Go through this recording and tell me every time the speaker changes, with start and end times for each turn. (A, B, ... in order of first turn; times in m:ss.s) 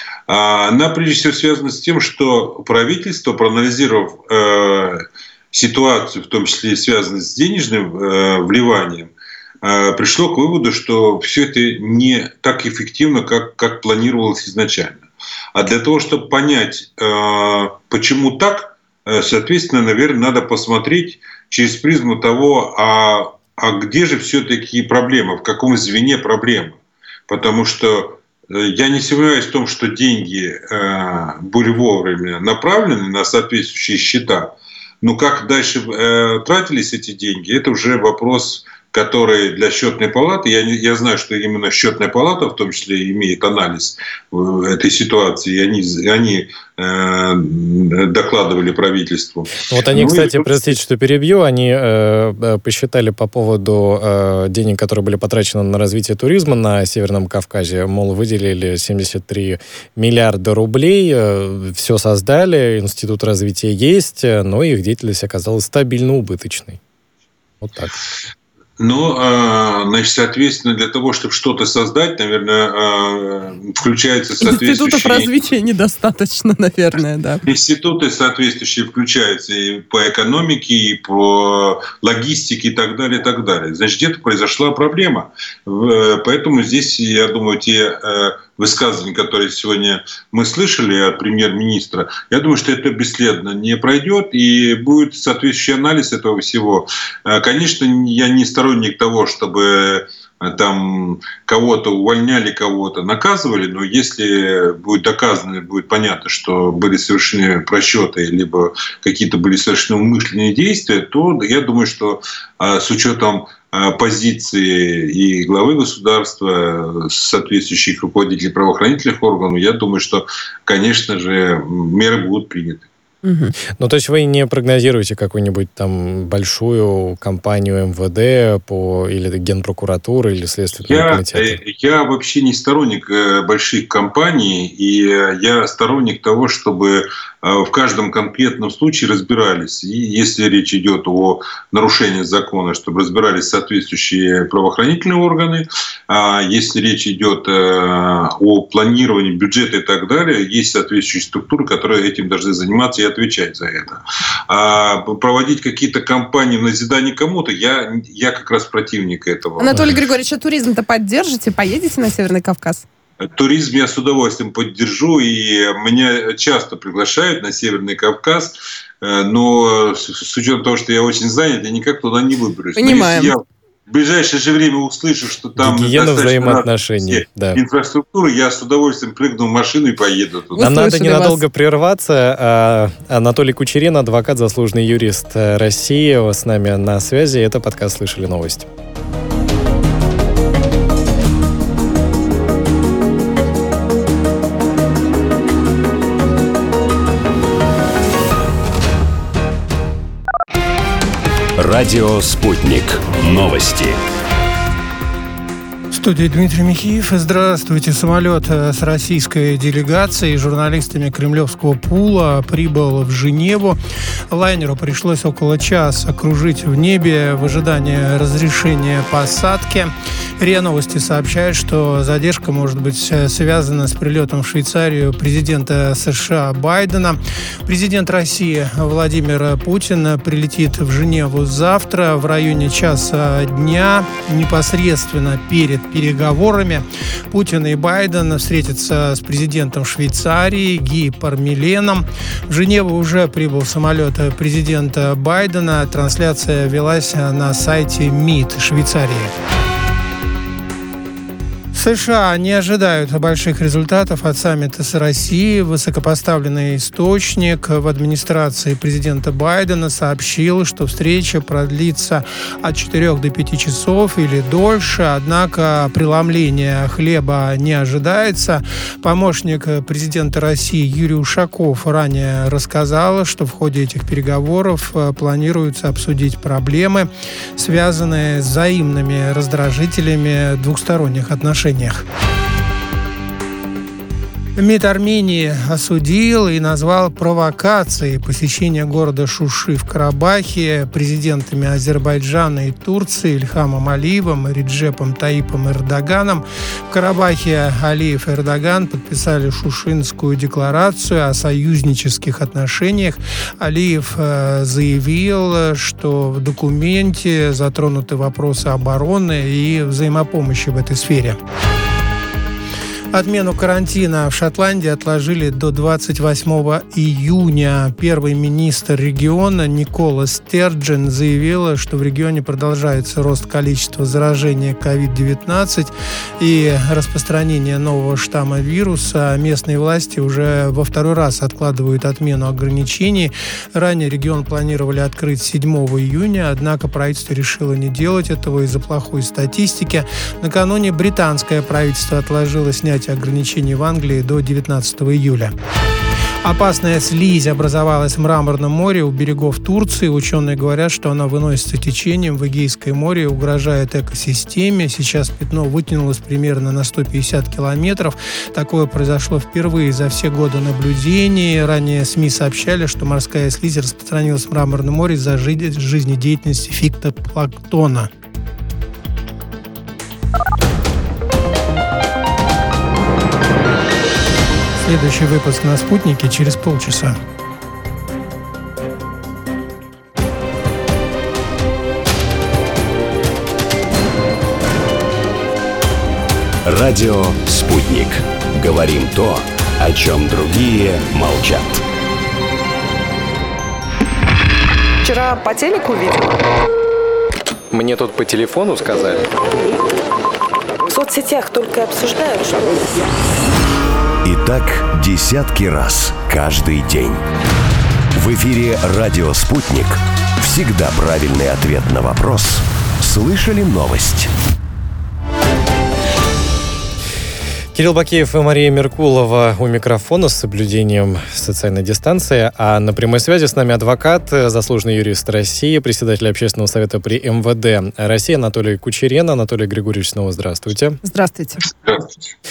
0:00.3-0:50.7 A
0:49.7-1:06.8 B
1:07.6-1:07.9 B
1:08.8-1:15.3 A
1:14.4-1:17.4 C
1:17.4-2:02.9 A
2:03.2-2:03.6 C
2:03.8-2:11.6 B
2:10.8-2:39.9 A
2:39.6-2:42.8 C
2:43.2-3:00.6 A
2:52.8-2:53.3 C
2:55.6-2:57.6 B
3:00.6-3:01.4 C
3:00.6-3:08.7 B
3:21.6-3:24.0 D
3:25.9-3:33.8 E
3:34.3-4:09.3 E
4:11.7-4:42.0 E
4:44.6-5:11.4 E
5:13.1-5:45.5 E
5:46.4-6:08.1 E
6:14.8-6:17.2 E
6:26.7-6:31.8 D
6:35.0-6:36.4 F
6:37.7-6:39.3 B
6:40.9-6:43.0 F
6:44.2-6:47.2 D
6:48.1-6:54.3 D
6:57.7-7:11.0 B
7:11.0-7:11.6 C
7:11.6-7:12.3 A